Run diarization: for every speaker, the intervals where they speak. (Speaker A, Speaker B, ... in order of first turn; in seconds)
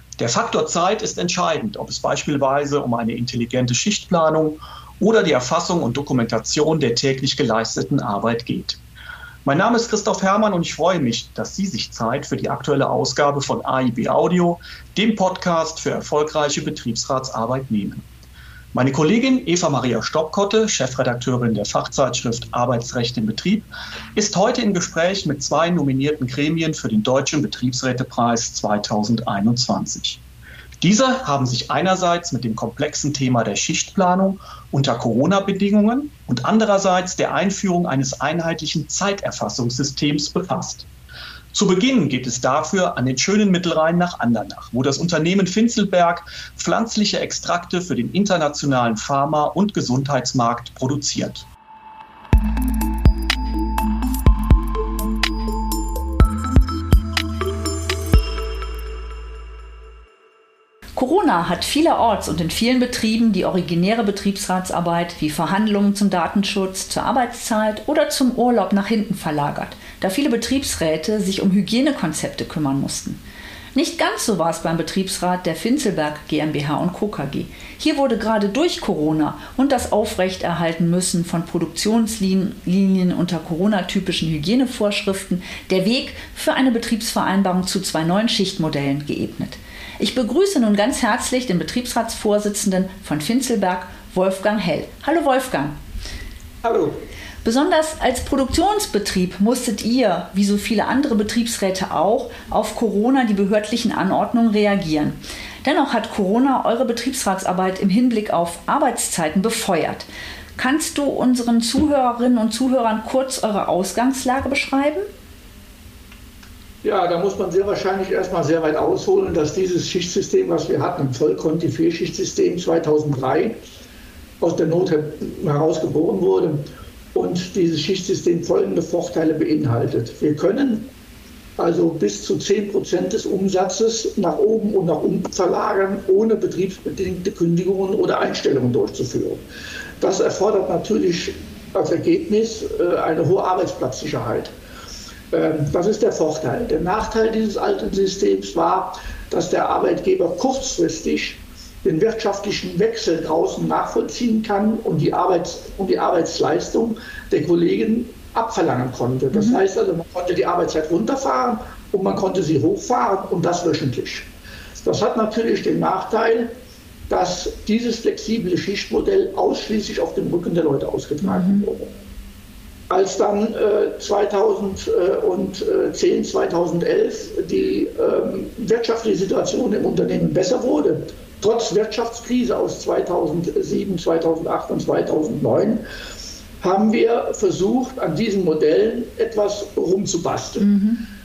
Speaker A: 0.2-8.8, 9.4-18.0, 18.7-30.2, 30.8-40.9, 41.5-51.5
Speaker B: 61.0-73.2, 73.7-95.8, 97.4-115.0, 159.3-159.6, 171.2-171.7, 190.6-191.0
Speaker C: 96.6-97.0, 116.8-123.6, 124.4-130.9, 131.6-139.4, 140.0-144.5, 145.3-164.3, 164.8-166.5, 167.1-171.9, 172.9-185.8, 186.6-190.7